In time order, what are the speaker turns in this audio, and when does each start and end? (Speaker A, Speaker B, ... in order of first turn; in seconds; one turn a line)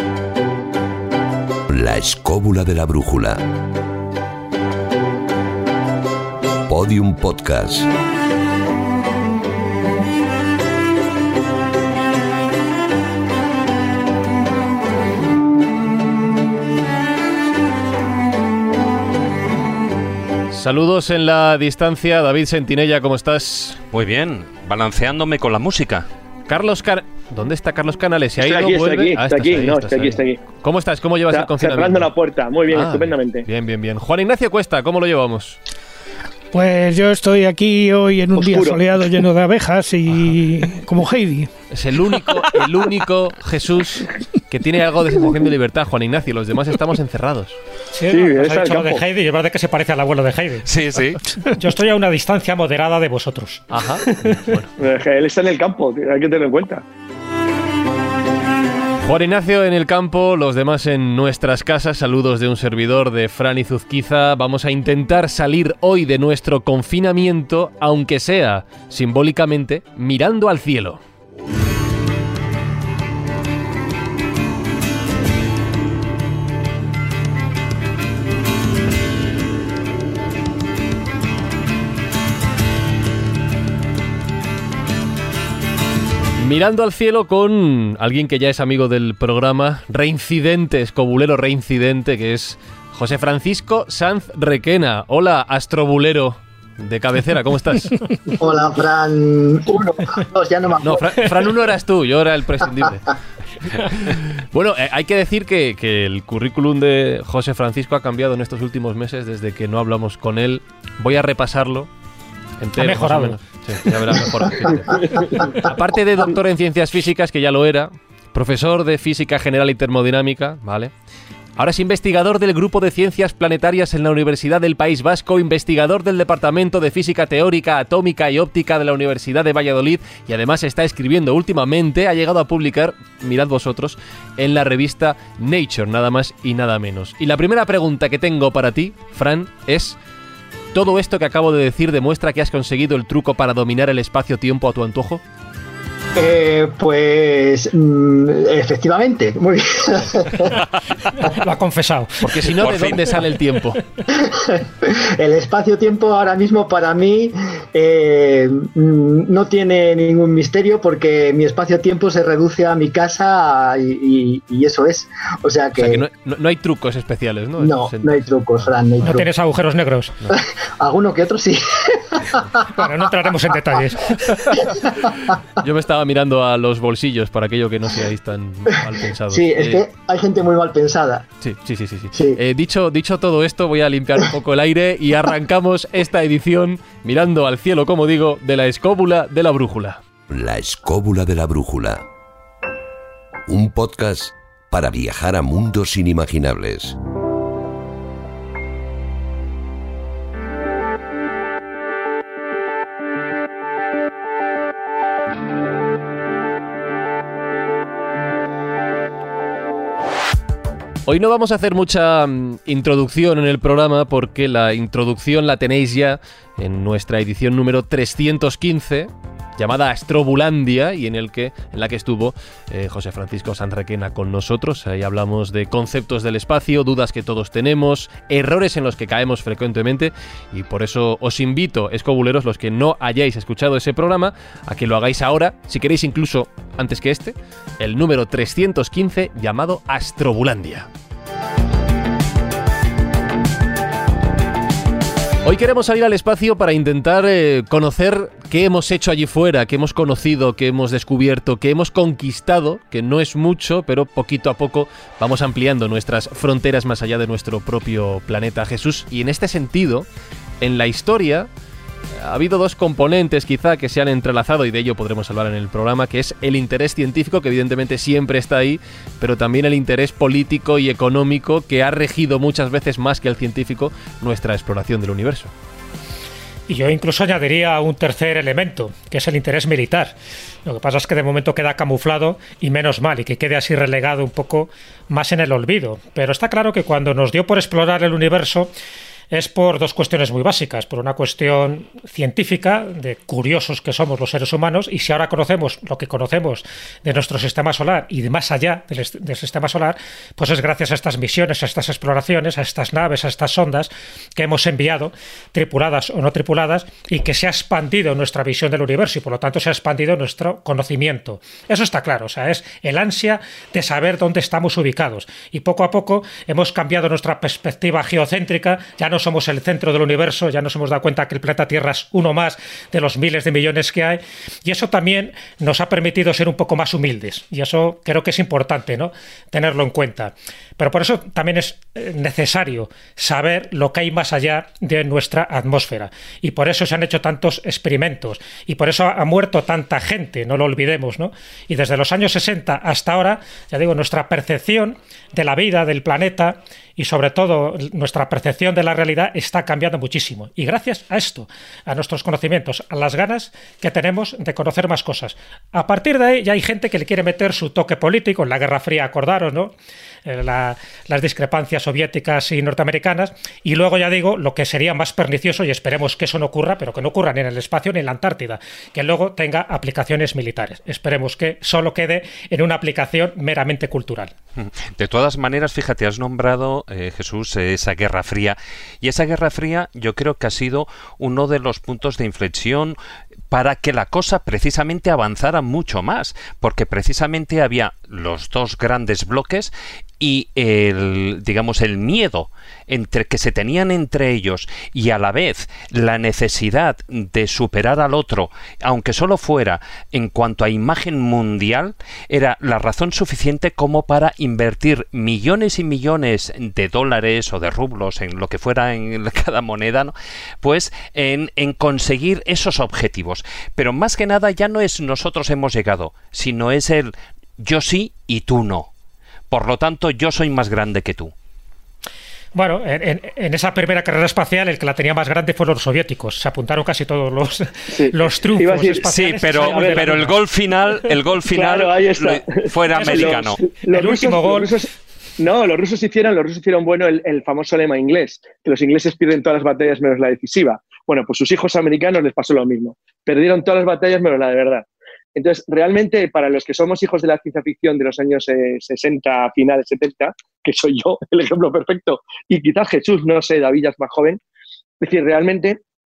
Speaker A: 1.7-3.4
Speaker A: 6.7-7.9
Speaker B: 20.5-23.8
Speaker C: 23.9-26.1
Speaker B: 26.5-32.1
Speaker D: 28.4-30.5
Speaker D: 31.3-33.5
Speaker B: 32.7-35.6
Speaker E: 36.5-41.5
Speaker D: 38.4-39.0
Speaker B: 41.7-47.6
Speaker F: 47.9-50.7
Speaker D: 48.1-49.0
Speaker C: 50.6-51.2
Speaker F: 51.4-53.7
Speaker B: 53.7-54.7
Speaker D: 54.8-56.8
Speaker B: 59.0-71.0
Speaker B: 86.4-98.3
Speaker G: 98.4-101.2
Speaker B: 100.8-111.9
Speaker B: 112.6-120.9
Speaker F: 112.8-113.4
Speaker D: 114.9-115.3
Speaker B: 121.5-140.0
Speaker B: 140.7-145.2
Speaker G: 146.2-150.5
Speaker F: 151.2-152.4
Speaker B: 152.2-153.8
Speaker C: 152.6-153.2
Speaker G: 154.1-166.1
Speaker B: 165.8-168.7
Speaker G: 167.6-169.3
Speaker F: 169.0-170.2
Speaker G: 170.3-172.6
Speaker F: 172.7-174.3
Speaker G: 174.5-175.3
Speaker B: 175.6-179.8
Speaker G: 179.3-181.3
Speaker B: 181.4-190.0
Speaker G: 182.1-182.4
Speaker A: 190.3-192.0
Speaker A: 193.5-196.9
Speaker B: 211.1-240.9
Speaker B: 245.4-260.1
Speaker B: 260.6-261.5
Speaker B: 262.2-275.5
Speaker F: 276.7-288.7
Speaker F: 289.3-359.7
Speaker F: 360.2-374.3
Speaker C: 374.6-383.0
Speaker C: 383.5-418.9
Speaker C: 419.5-421.3
Speaker F: 422.5-430.4
Speaker D: 427.9-430.3
Speaker C: 429.0-433.6
Speaker D: 431.5-454.4
Speaker F: 432.9-434.7
Speaker D: 455.0-455.8